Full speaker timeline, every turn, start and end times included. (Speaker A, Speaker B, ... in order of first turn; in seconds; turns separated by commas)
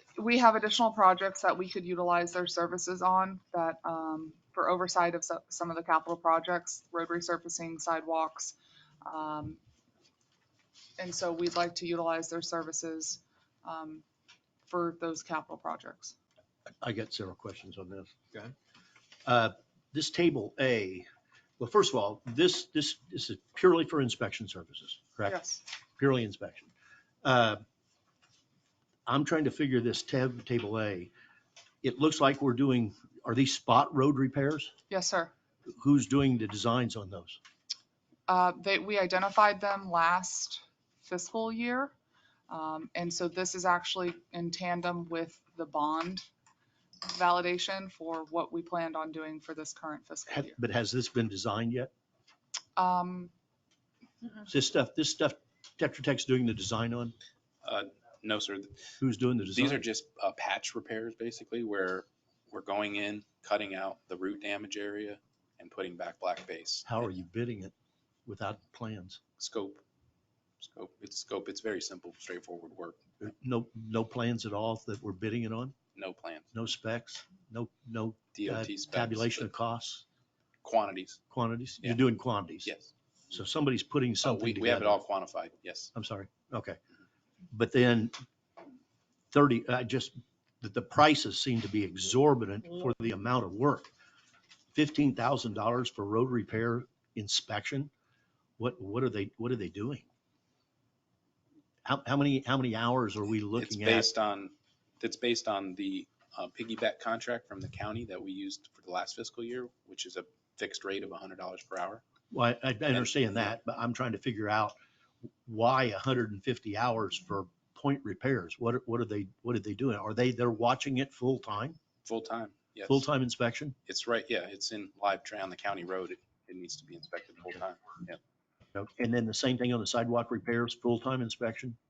Speaker A: 0.1-9.6, Speaker A: 11.0-14.0, Speaker A: 14.7-16.1, Speaker B: 16.8-18.1, Speaker B: 19.2-21.1, Speaker B: 21.6-26.7, Speaker A: 25.2-25.6, Speaker B: 27.2-27.6, Speaker B: 29.1-31.1, Speaker B: 31.8-34.7, Speaker A: 34.9-35.3, Speaker B: 35.7-37.4, Speaker A: 38.3-41.9, Speaker A: 42.5-46.2, Speaker A: 47.0-50.5, Speaker B: 50.3-51.9, Speaker A: 52.8-53.3, Speaker B: 54.5-57.1, Speaker C: 57.6-58.8, Speaker B: 59.0-59.9, Speaker C: 59.5-66.9, Speaker B: 66.8-67.7, Speaker B: 68.2-69.2, Speaker C: 69.4-69.8, Speaker C: 70.6-73.0, Speaker B: 73.2-75.7, Speaker C: 75.9-76.5, Speaker B: 76.5-80.0, Speaker C: 78.3-79.4, Speaker C: 80.6-81.2, Speaker B: 81.3-82.7, Speaker C: 82.6-82.9, Speaker B: 83.3-85.0, Speaker C: 84.2-85.9, Speaker B: 85.9-86.8, Speaker B: 87.5-88.1, Speaker B: 89.3-93.9, Speaker B: 94.7-97.9, Speaker B: 98.6-100.0, Speaker B: 101.8-104.1, Speaker C: 103.5-112.0, Speaker B: 112.3-114.8, Speaker C: 112.9-113.5, Speaker B: 115.5-121.8, Speaker C: 122.0-123.1, Speaker B: 122.9-123.8, Speaker C: 123.9-128.2, Speaker B: 128.7-131.8